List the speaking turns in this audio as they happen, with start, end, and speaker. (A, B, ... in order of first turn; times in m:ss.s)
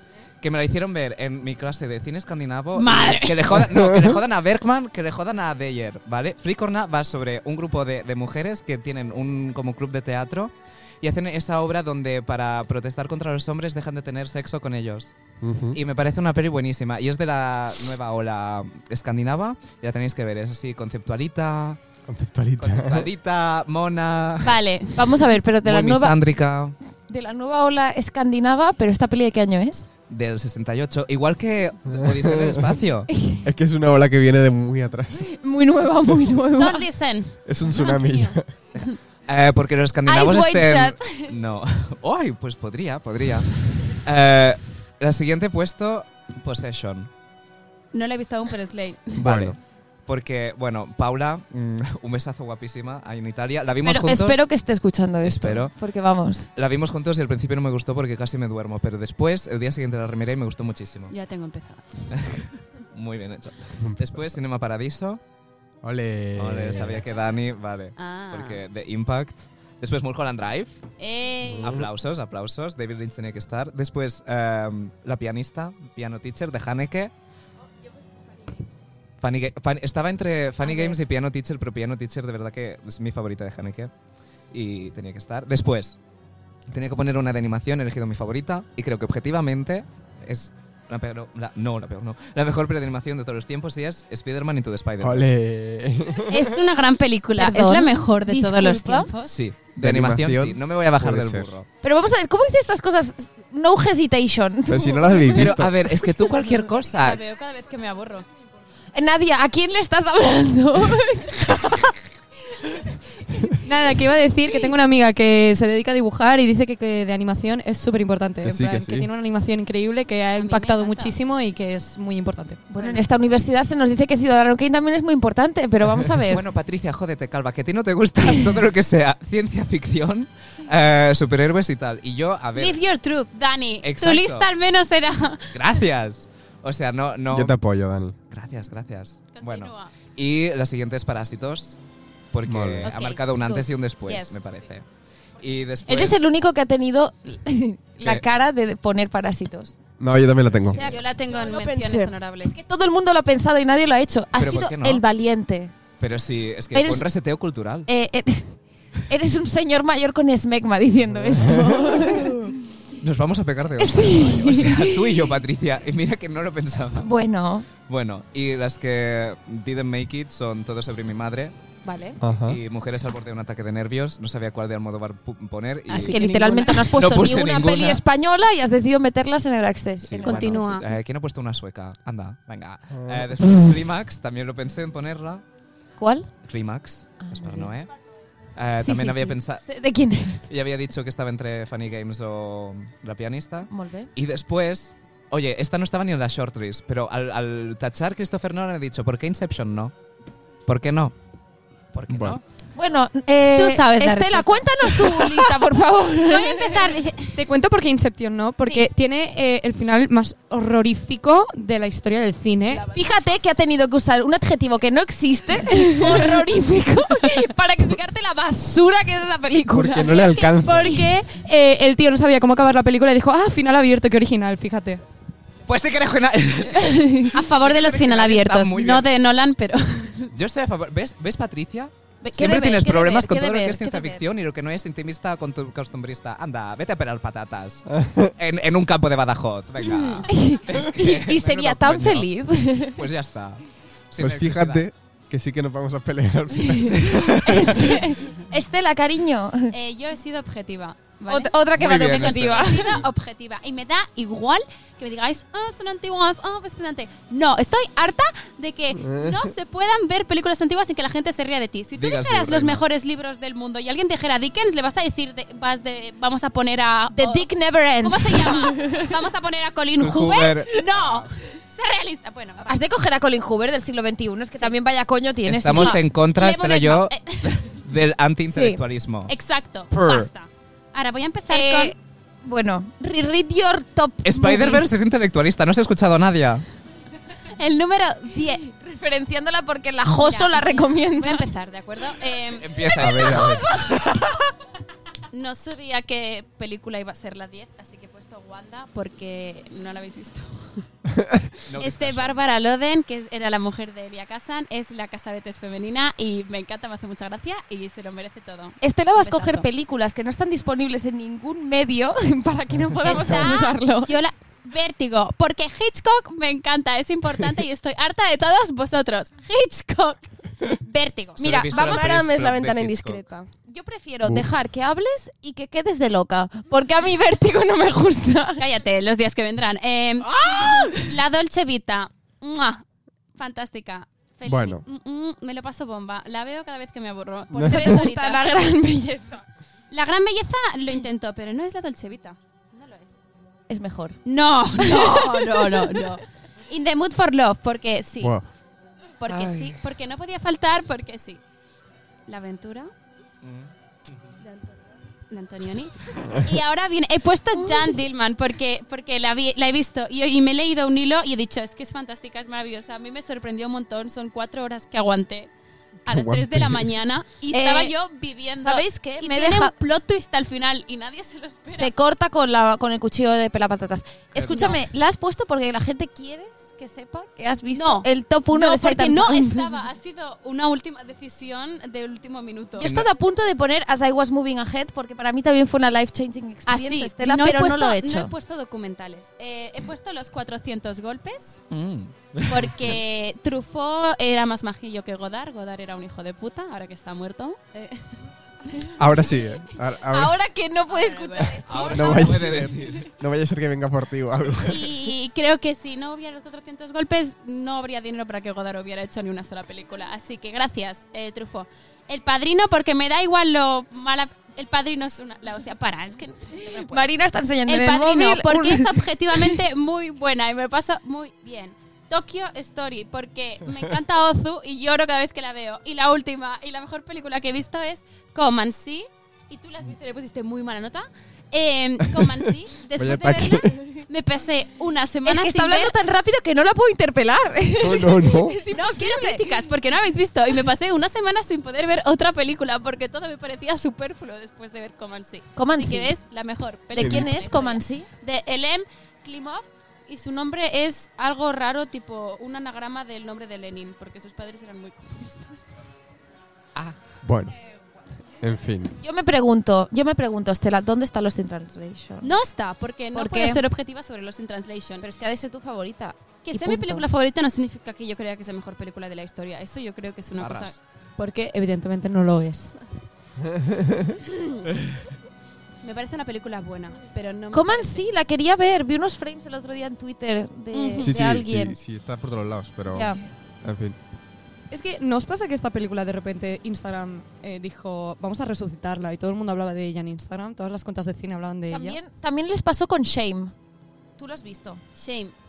0:00.4-0:15.1 A
0:02.7-0:03.5 B
0:03.6-0:04.1 C
0:15.4-0:15.8 C
0:15.7-0:21.8 A
0:22.1-0:23.1 C
0:22.6-0:24.6 A
0:24.4-0:25.0 B
0:25.0-0:26.2 D
0:25.6-0:26.8 A
0:27.1-0:29.9 D
0:30.1-0:33.1 A
0:31.9-0:32.8 C
0:33.4-0:35.3 C
0:35.2-0:36.8 D
0:36.5-0:38.9 B
0:37.4-0:38.5 C
0:38.7-0:47.1 A
0:40.0-0:41.3 D
0:47.9-0:49.2 B
0:49.2-0:49.6 C
0:49.2-0:54.4 A
0:53.8-0:56.5 D
0:55.2-0:55.7 A
0:56.6-1:01.1 A
1:01.1-1:02.1 B
1:02.1-1:05.2 A
1:03.8-1:04.2 C
1:05.8-1:07.0 C
1:06.4-1:10.8 A
1:08.0-1:08.6 B
1:11.0-1:11.7 B
1:11.4-1:11.9 C
1:11.6-1:17.1 A
1:19.2-1:23.9 A
1:20.6-1:21.0 B
1:24.5-1:26.0 A
1:26.7-1:35.3 A
1:35.0-1:36.6 C
1:36.3-1:39.3 B
1:37.4-1:39.1 D
1:39.2-1:41.7 A
1:39.8-1:41.5 C
1:41.8-1:45.5 D
1:44.7-1:45.9 C
1:45.3-1:47.2 A
1:46.8-1:48.2 B
1:48.9-1:51.9 D
1:53.6-2:02.6 E
1:58.4-1:59.1 C
2:00.4-2:01.2 B
2:02.7-2:06.4 D
2:02.8-2:03.0 B
2:06.3-2:12.8 A
2:12.6-2:15.5 B
2:13.8-2:14.5 A
2:15.5-2:17.6 A
2:17.3-2:18.2 C
2:18.3-2:21.8 A
2:19.3-2:19.9 B
2:22.3-2:24.9 A
2:22.4-2:22.9 C
2:22.8-2:24.4 B
2:25.4-2:26.2 A
2:25.9-2:29.8 D
2:30.0-2:30.8 C
2:30.7-2:31.0 D
2:30.8-2:32.6 B
2:31.2-2:32.2 F
2:32.4-2:35.7 D
2:34.4-2:35.0 A
2:36.0-2:37.9 A
2:36.7-2:37.0 D
2:37.9-2:42.5 D
2:41.3-2:41.8 C
2:43.0-2:47.1 A
2:43.8-2:45.3 D
2:47.0-2:47.7 D
2:47.8-2:51.5 A
2:51.8-2:52.2 D
2:52.2-2:52.6 C
2:52.4-2:58.0 A
2:55.9-2:56.9 B
2:56.1-3:00.7 D
3:00.1-3:05.4 A
3:00.2-3:00.9 B
3:02.9-3:03.5 C
3:06.0-3:06.3 D
3:06.4-3:07.9 A
3:07.2-3:07.7 D
3:08.6-3:09.6 A
3:08.8-3:10.5 D
3:10.5-3:19.9 A
3:13.7-3:14.1 D
3:20.6-3:21.1 A
3:21.9-3:22.4 A
3:22.1-3:22.4 C
3:22.8-3:27.0 D
3:23.5-3:25.6 B
3:26.2-3:27.4 B
3:27.4-3:32.9 E
3:32.7-3:33.0 B
3:32.9-3:41.1 D
3:36.0-3:36.4 B
3:39.7-3:41.1 C
3:40.6-3:45.0 E
3:45.6-3:49.1 A
3:46.8-3:47.3 D
3:47.3-3:50.3 B
3:50.3-4:04.8 A
3:52.2-3:54.2 D
3:57.9-3:58.3 C
3:59.8-4:00.3 B
4:00.3-4:03.0 D
4:04.2-4:07.9 C
4:07.4-4:09.7 D
4:09.7-4:27.5 B
4:11.3-4:13.0 D
4:11.7-4:13.0 A
4:19.0-4:19.4 C
4:22.0-4:22.8 A
4:27.1-4:29.1 D
4:28.0-4:32.8 B
4:30.0-4:31.3 A
4:32.6-4:36.0 D
4:35.4-4:39.3 A
4:35.7-4:37.7 B
4:39.3-4:41.9 B
4:39.9-4:40.3 A
4:41.5-4:44.9 D
4:44.2-4:46.6 A
4:47.5-4:48.6 B
4:48.3-4:51.4 D
4:50.2-4:53.5 B
4:52.6-4:54.4 A
4:53.0-4:53.6 C
4:55.3-5:00.9 B
5:01.2-5:01.4 C
5:01.6-5:02.4 A
5:01.8-5:09.7 B
5:08.8-5:14.1 D
5:13.0-5:21.5 B
5:21.4-5:22.1 D
5:21.4-5:23.2 A
5:21.8-5:23.5 F
5:23.7-5:28.6 D
5:28.6-5:32.8 B
5:30.3-5:31.1 A
5:33.4-5:38.6 B
5:34.4-5:34.8 C
5:37.5-5:38.0 C
5:37.6-5:39.4 D
5:39.9-5:43.1 B
5:43.7-5:44.2 D
5:44.2-5:48.4 B
5:44.8-5:46.0 D
5:48.2-5:48.4 C
5:49.2-5:51.4 B
5:49.3-5:49.8 A
5:52.3-5:52.9 B
5:53.4-5:54.3 A
5:54.5-5:54.8 F
5:55.3-6:05.5 B
6:06.0-6:11.9 B
6:06.0-6:06.9 C
6:07.5-6:07.9 D
6:08.6-6:09.7 D
6:11.7-6:19.7 D
6:14.3-6:14.8 A
6:17.7-6:22.9 B
6:22.8-6:28.3 D
6:22.8-6:23.1 A
6:26.6-6:31.6 B
6:31.7-6:33.0 A
6:32.5-6:38.2 B
6:39.0-6:40.4 C
6:40.1-6:42.3 D
6:40.9-6:42.6 B
6:41.7-6:43.1 A
6:41.9-6:45.1 C
6:44.6-6:57.0 B
6:56.8-6:59.6 D
6:57.6-7:15.9 B
7:13.0-7:13.8 C
7:15.2-7:19.5 D
7:17.8-7:18.6 C
7:18.7-7:35.7 B
7:25.6-7:26.1 D
7:26.9-7:28.1 D
7:27.0-7:27.3 C
7:37.2-7:37.5 C
7:38.4-7:39.0 C
7:39.0-7:42.3 D
7:42.2-7:45.0 B
7:43.1-7:43.6 D
7:45.0-7:47.1 D
7:46.4-7:50.8 B
7:50.4-7:50.8 A
7:51.2-7:52.8 E
7:53.4-7:54.2 C
7:54.2-7:54.6 B
7:55.8-7:58.1 B
7:57.5-8:01.8 D
8:00.7-8:01.1 B
8:01.0-8:04.0 C
8:02.9-8:03.2 D
8:04.7-8:12.0 E
8:11.7-8:13.5 D
8:14.2-8:14.8 D
8:15.0-8:15.3 B